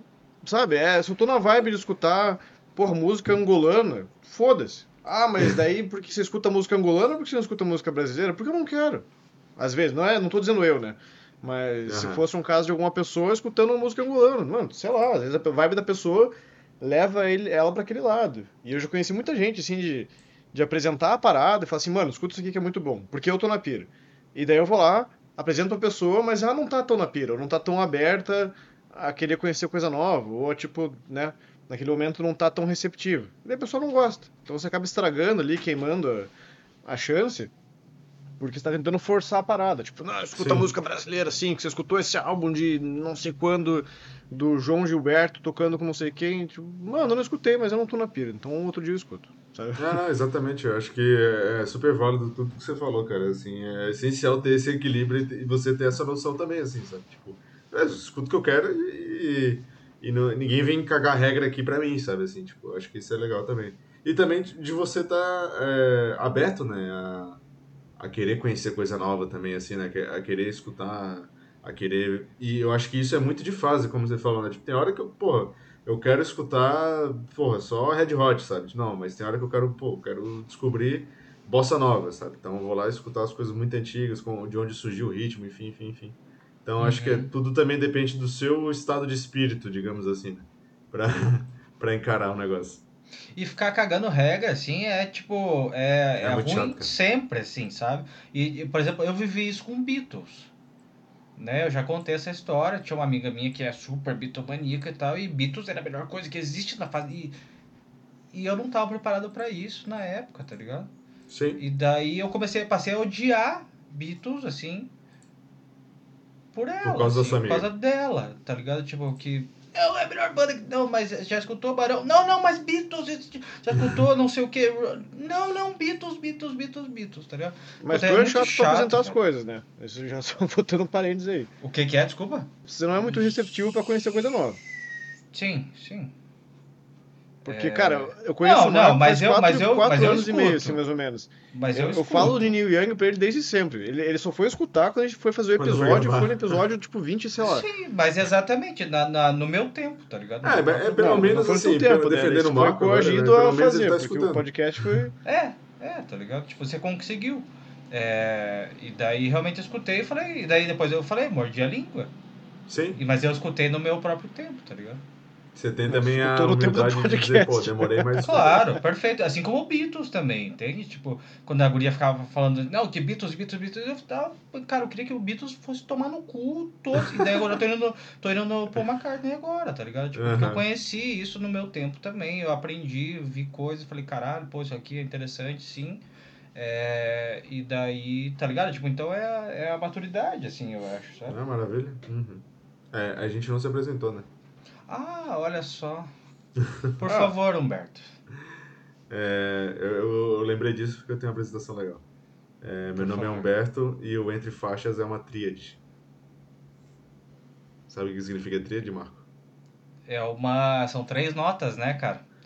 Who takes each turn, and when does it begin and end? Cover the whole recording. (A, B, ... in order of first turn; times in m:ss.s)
0:00.4-0:36.3 A
0:11.9-0:12.2 B
0:36.8-0:37.5 A
0:38.4-0:50.0 A
0:40.4-0:40.7 B
0:49.8-1:07.4 B
1:08.0-1:32.8 B
1:26.8-1:27.3 C
1:33.4-1:40.5 C
1:36.2-1:36.9 B
1:41.4-1:47.4 C
1:48.3-1:50.9 C
1:51.3-1:51.6 B
1:51.6-1:54.9 C
1:56.5-2:09.2 C
1:56.8-1:57.7 B
2:07.8-2:11.5 A
2:11.6-2:12.5 C
2:12.7-2:14.6 A
2:15.3-2:16.1 C
2:17.4-2:20.8 C
2:17.4-2:27.7 A
2:21.5-2:22.6 C
2:25.6-2:26.6 B
2:27.4-2:31.4 C
2:30.4-2:34.5 B
2:31.0-2:35.2 A
2:35.2-2:42.1 C
2:42.7-2:43.0 B
2:43.0-2:45.0 C
2:45.6-2:48.6 B
2:45.9-2:48.5 A
2:48.2-3:06.0 C
3:00.1-3:00.6 B
3:06.6-3:11.4 C
3:11.3-3:14.3 B
3:14.9-3:16.1 C
3:17.0-3:18.1 C
3:17.1-3:17.3 A
3:19.1-3:22.0 B
3:22.6-3:25.8 B
3:23.0-3:23.5 C
3:27.9-3:29.2 B
3:30.1-3:32.3 C